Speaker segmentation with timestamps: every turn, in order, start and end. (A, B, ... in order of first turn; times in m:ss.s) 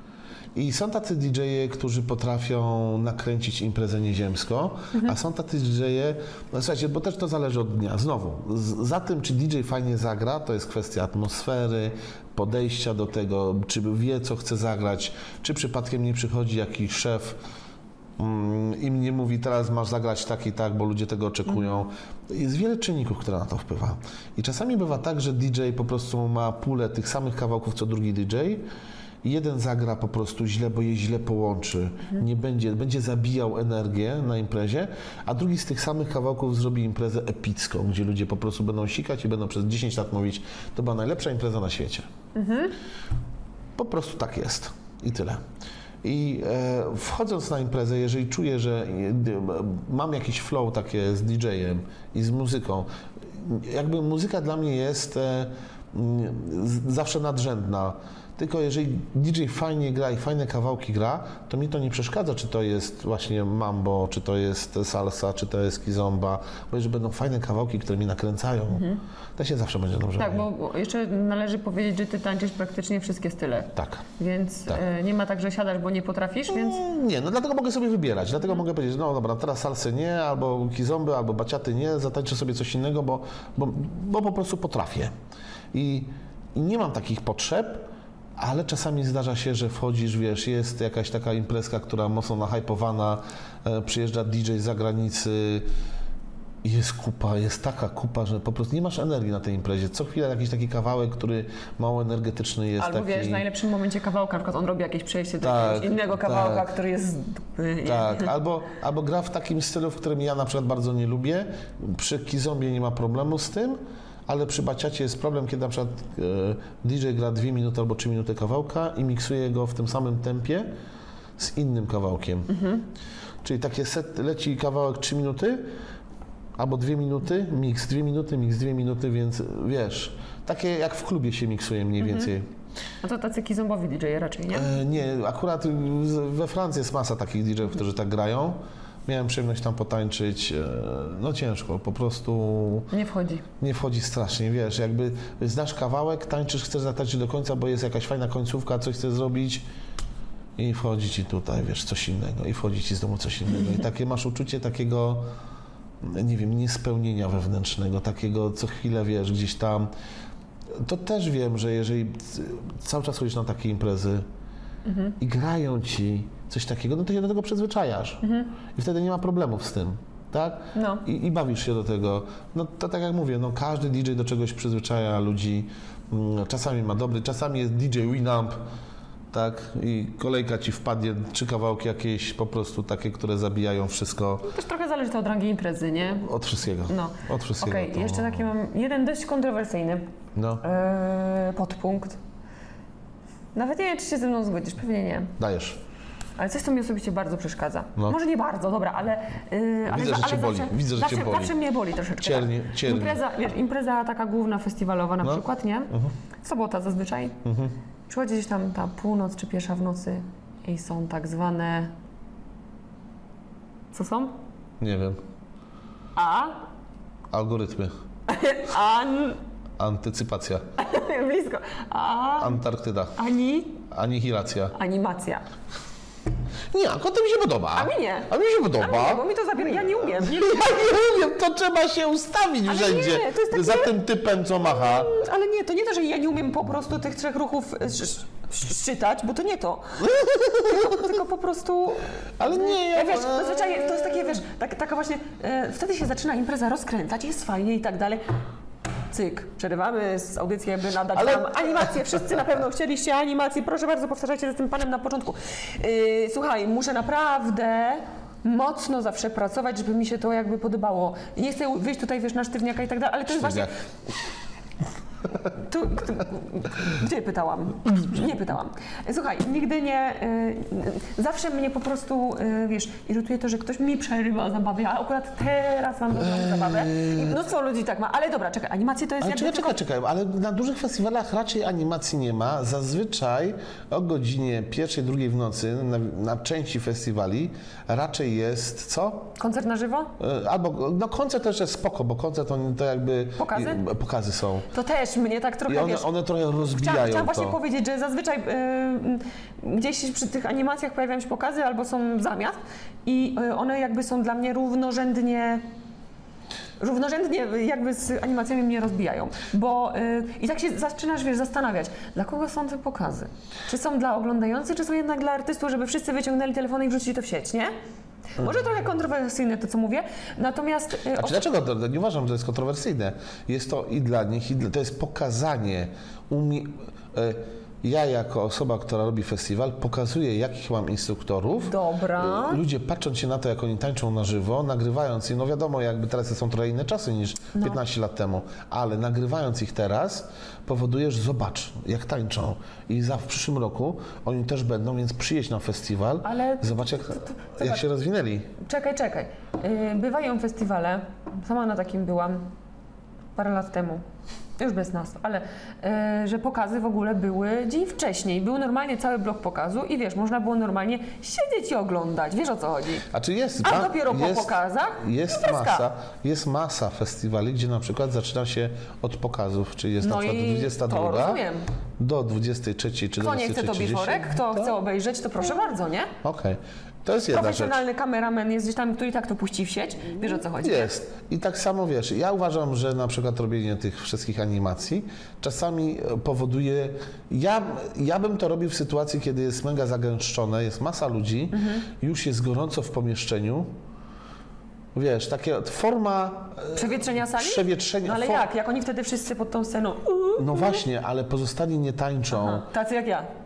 0:00.5-0:17.4 A
0:18.2-0:28.6 A
0:29.2-0:42.1 A
0:42.3-0:42.7 B
0:43.8-0:45.4 A
0:46.0-1:10.5 A
1:08.7-1:09.0 B
1:10.2-1:16.8 B
1:13.7-1:14.0 A
1:16.5-1:25.1 A
1:25.7-1:35.7 A
1:36.6-1:43.4 A
1:42.8-1:48.3 B
1:45.4-1:46.7 A
1:47.8-2:00.7 A
2:01.4-2:02.6 A
2:02.5-2:02.8 B
2:03.4-2:05.7 A
2:06.6-2:12.5 A
2:12.0-2:12.3 B
2:13.0-2:14.7 B
2:14.5-2:22.9 A
2:22.9-2:23.4 B
2:23.6-2:29.6 A
2:30.6-2:35.3 A
2:36.0-2:39.9 A
2:40.8-2:44.2 A
2:44.8-2:45.2 B
2:45.2-2:48.2 A
2:48.2-2:48.5 B
2:48.7-2:58.6 A
2:50.7-2:51.0 B
2:59.3-3:04.5 A
3:04.4-3:06.3 B
3:06.2-3:08.5 A
3:06.9-3:10.0 B
3:10.4-3:10.6 A
3:10.6-3:12.2 B
3:13.5-3:15.3 B
3:15.4-3:15.8 A
3:16.4-3:27.4 B
3:19.9-3:21.5 A
3:22.2-3:23.2 A
3:25.2-3:26.1 A
3:27.4-3:27.7 A
3:28.1-3:31.9 B
3:33.9-3:34.4 B
3:34.8-3:35.2 A
3:36.2-3:36.6 B
3:37.3-3:37.9 A
3:38.3-3:39.4 B
3:39.8-3:40.6 A
3:40.8-3:42.6 B
3:42.4-3:43.2 A
3:43.2-3:43.8 B
3:43.9-3:44.7 A
3:44.7-3:45.4 B
3:46.7-3:49.2 A
3:47.7-3:50.9 B
3:50.0-3:55.1 A
3:52.6-3:54.0 B
3:54.6-4:08.2 B
4:00.0-4:01.2 A
4:02.4-4:03.9 A
4:09.1-4:23.8 B
4:11.1-4:11.9 A
4:23.3-4:23.7 A
4:25.5-4:39.8 B
4:36.2-4:37.4 A
4:39.2-4:49.3 A
4:49.4-4:50.1 B
4:50.2-4:54.7 A
4:53.4-4:53.8 B
4:54.7-4:56.1 B
4:55.7-4:57.6 A
4:56.7-5:05.6 B
5:06.8-5:17.7 B
5:18.3-5:21.4 B
5:21.2-5:48.5 A
5:31.6-5:32.6 B
5:46.2-5:47.8 B
5:48.6-5:52.5 B
5:53.4-5:54.0 B
5:54.6-6:03.1 B
6:03.1-6:11.4 A
6:03.6-6:05.8 B
6:10.0-6:11.6 B
6:12.0-6:14.7 A
6:13.2-6:16.1 B
6:16.2-6:17.8 A
6:17.3-6:20.9 B
6:20.4-6:33.7 A
6:31.5-6:31.8 B
6:34.9-6:38.4 A
6:36.7-6:40.8 B
6:40.3-6:42.7 A
6:42.3-6:43.3 B